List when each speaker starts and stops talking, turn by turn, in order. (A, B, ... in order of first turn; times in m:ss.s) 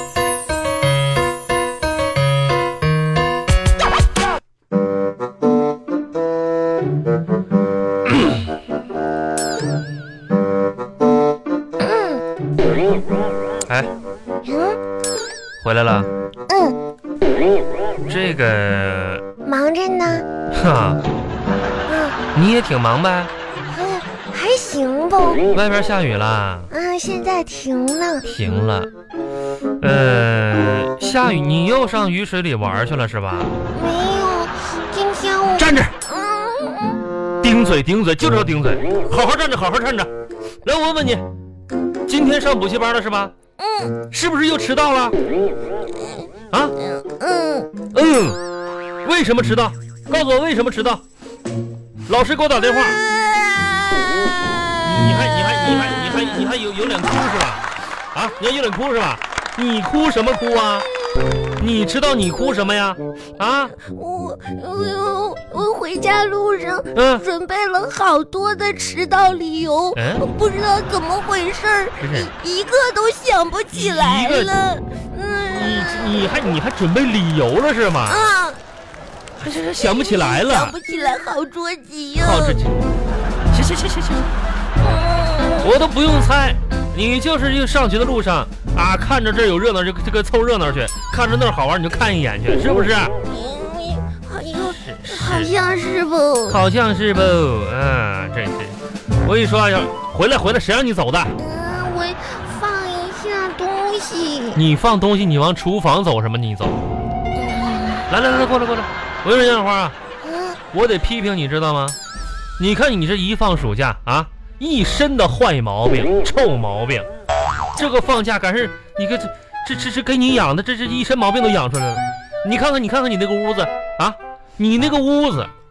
0:11.8-0:12.2 A
0:14.4-0:14.8 A
0:15.6-0:16.1 B
0:16.5-0:16.8 A
0:18.0-0:19.2 B
0:19.4-0:20.2 A
0:20.5-0:21.0 B
0:21.8-0:22.2 A
0:22.3-0:23.3 B
0:23.7-0:25.4 A
0:25.5-0:26.7 B
0:26.7-0:28.3 A
0:28.2-0:28.9 B
0:29.8-0:33.6 B
0:33.7-0:37.0 A
0:35.6-0:35.9 B
0:37.4-0:40.1 B
0:40.6-0:41.2 B
0:42.1-0:43.3 B
0:43.6-0:44.0 A
0:44.1-0:45.2 B
0:46.8-0:47.7 A
0:47.9-0:48.4 B
0:49.0-0:51.0 B
0:52.1-0:53.0 B
0:52.9-0:56.1 A
0:54.8-1:00.9 B
1:01.6-1:03.8 B
1:03.8-1:16.5 A
1:06.9-1:07.2 B
1:09.9-1:10.2 B
1:12.0-1:12.3 B
1:13.7-1:14.5 B
1:15.5-1:18.3 B
1:18.1-1:18.6 A
1:19.4-1:20.8 B
1:19.8-1:22.6 A
1:22.2-1:22.9 B
1:23.5-1:24.3 B
1:24.8-1:25.7 A
1:25.6-1:33.1 B
1:33.2-1:36.6 A
1:34.7-1:35.5 B
1:36.5-1:41.3 B
1:41.4-1:44.6 A
1:44.5-1:46.8 B
1:47.4-1:48.1 A
1:48.1-1:49.9 B
1:50.2-1:50.6 A
1:50.7-1:52.0 B
1:52.6-1:57.1 B
1:57.8-2:05.5 B